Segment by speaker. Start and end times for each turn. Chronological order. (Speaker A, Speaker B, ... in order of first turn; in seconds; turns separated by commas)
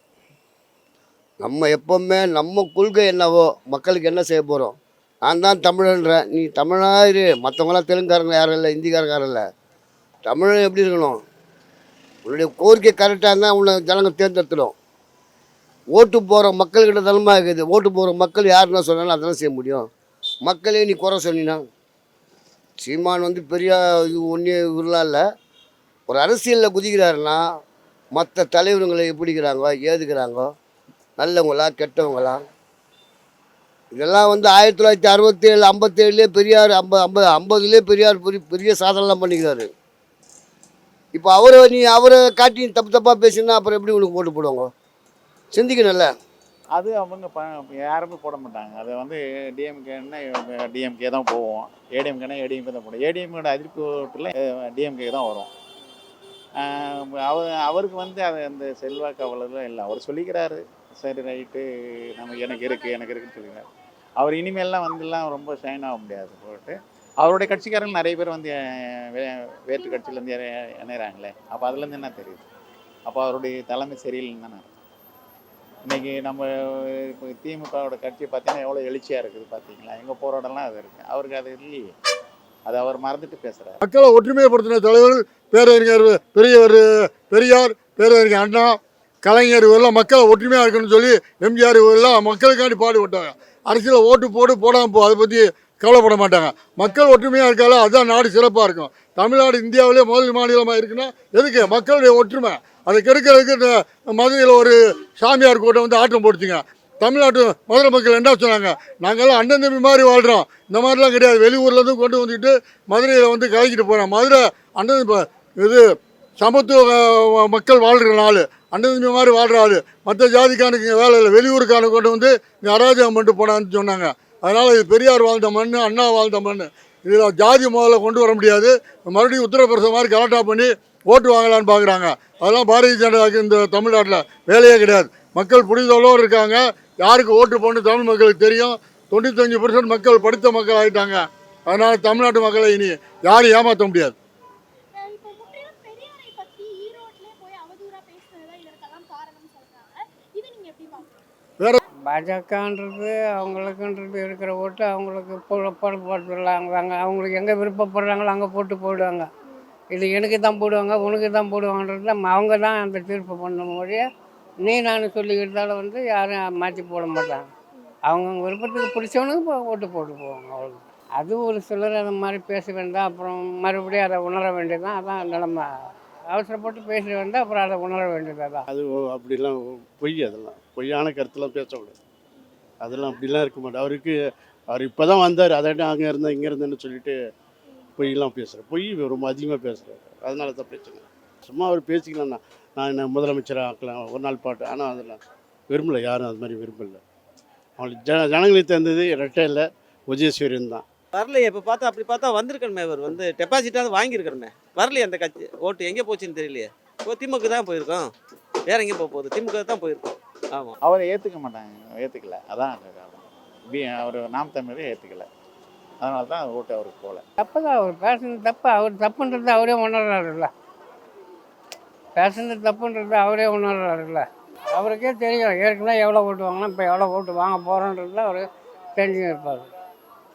Speaker A: 1.4-4.7, Speaker A: 5.3-9.4, Speaker A: 10.3-11.2, Speaker A: 12.2-14.7, Speaker A: 15.9-19.9, Speaker A: 20.4-21.6, Speaker A: 22.8-25.2, Speaker A: 26.1-27.4, Speaker A: 28.1-30.5, Speaker A: 31.2-32.4, Speaker A: 33.9-39.7, Speaker A: 41.1-44.7, Speaker A: 45.5-46.1, Speaker B: 46.7-55.5, Speaker B: 56.6-68.6, Speaker B: 69.1-72.5, Speaker B: 73.0-74.7, Speaker B: 75.8-81.9, Speaker B: 82.7-83.8, Speaker C: 83.8-115.9, Speaker C: 116.4-144.1, Speaker D: 144.9-151.1, Speaker E: 152.0-159.3, Speaker E: 159.9-164.1, Speaker E: 164.6-167.5, Speaker E: 168.1-175.7, Speaker E: 176.3-178.6, Speaker F: 178.7-181.9, Speaker F: 182.8-184.2, Speaker F: 184.7-187.2, Speaker F: 188.0-195.2, Speaker F: 195.7-197.0, Speaker F: 197.8-200.8, Speaker G: 201.1-208.1, Speaker G: 208.7-210.7, Speaker B: 210.8-215.3, Speaker B: 216.0-217.2, Speaker E: 217.4-220.5, Speaker E: 222.1-229.7